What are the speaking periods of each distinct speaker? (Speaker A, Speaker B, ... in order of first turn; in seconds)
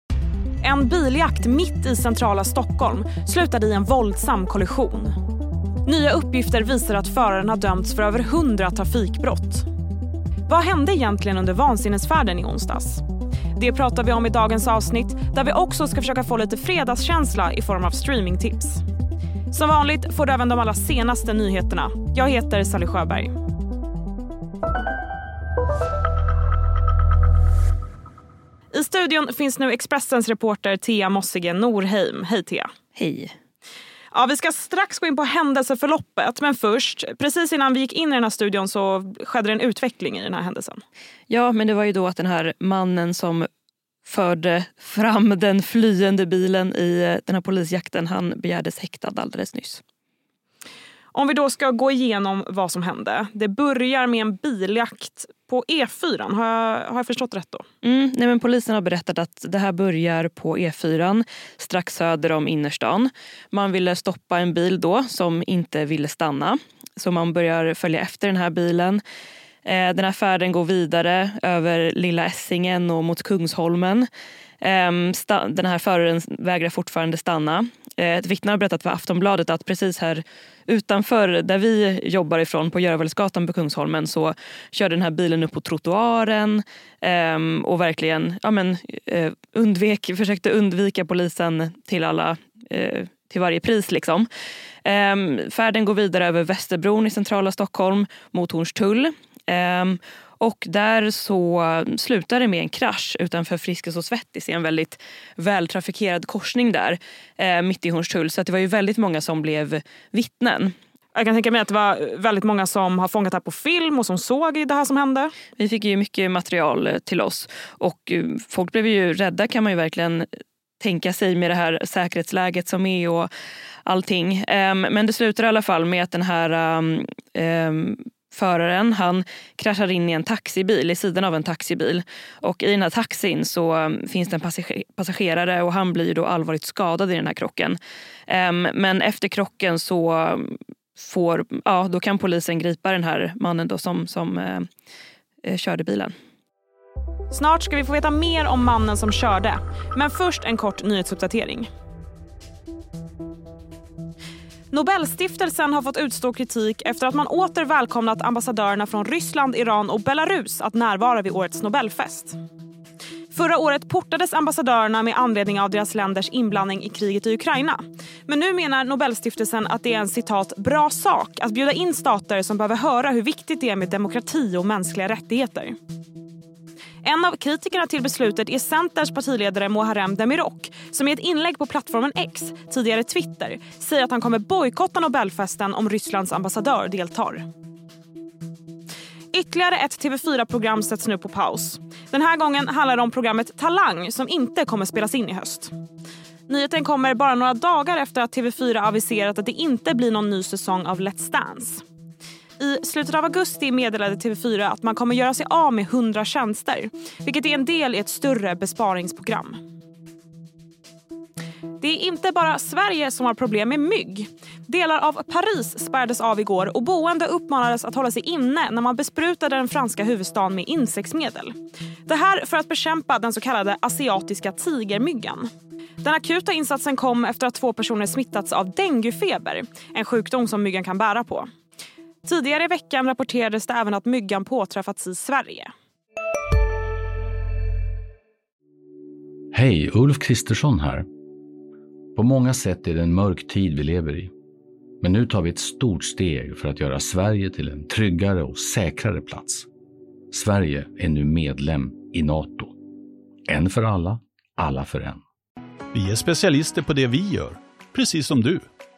Speaker A: 0.6-5.1, 5.8-9.7, 10.5-13.0, 13.6-18.8, 19.5-23.3, 28.7-32.7, 34.1-40.8, 51.1-57.7, 111.1-115.3, 147.3-151.7, 154.7-162.4, 163.3-175.8, 177.0-187.4, 189.3-195.7, 196.5-201.8, 202.6-209.6, 211.8-221.5, 222.1-225.5, 226.0-231.5, 232.2-235.7
Speaker B: 32.9-33.3, 41.3-43.5, 44.0-49.8, 57.8-69.0, 69.6-74.1, 74.6-94.3, 94.8-110.7, 115.6-120.3, 120.8-123.3, 123.8-144.7, 145.4-146.1
Speaker C: 239.5-241.1, 242.2-244.3, 245.0-249.7, 250.3-252.7, 253.5-255.2
Speaker D: 255.9-258.6